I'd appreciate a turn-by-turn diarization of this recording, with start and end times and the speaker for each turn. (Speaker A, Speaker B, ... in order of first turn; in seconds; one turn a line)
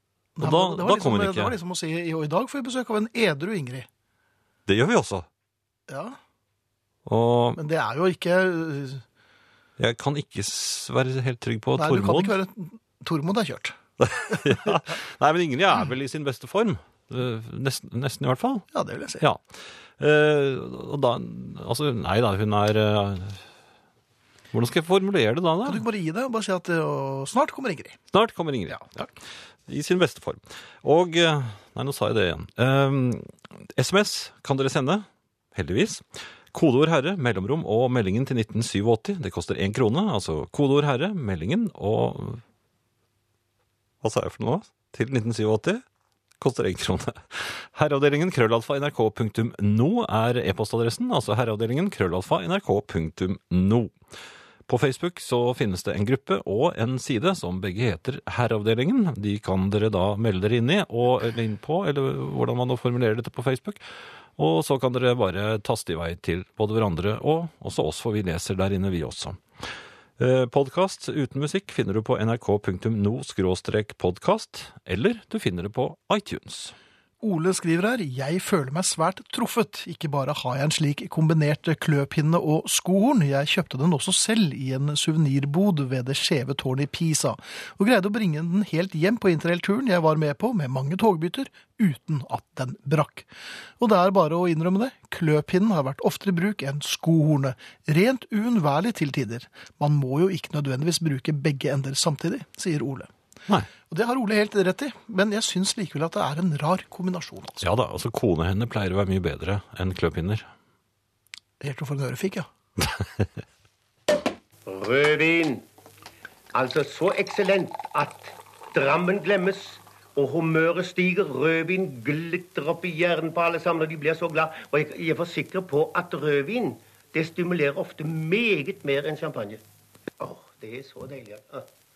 Speaker A: 0.4-3.9
Speaker B: 0.4-1.6
Speaker B: 4.7-5.3
Speaker A: 5.9-6.2
Speaker B: 7.1-7.6
Speaker A: 7.6-9.1
Speaker B: 9.8-12.4
Speaker A: 11.8-13.8
Speaker B: 14.0-18.7
Speaker A: 14.3-14.6
Speaker A: 18.7-19.2
Speaker B: 19.2-23.4
Speaker B: 24.5-25.8
Speaker A: 25.6-28.0
Speaker B: 28.1-29.1
Speaker A: 28.7-29.1
Speaker B: 29.7-42.4
Speaker B: 44.0-45.8
Speaker B: 46.4-53.9
Speaker B: 54.7-63.8
Speaker B: 64.4-69.4
Speaker B: 70.2-76.7
Speaker A: 77.2-103.1
Speaker A: 103.9-107.7
Speaker B: 107.6-110.5
Speaker A: 111.6-112.5
Speaker B: 112.8-113.3
Speaker C: 114.7-115.6
Speaker C: 116.5-129.6
Speaker C: 130.2-131.7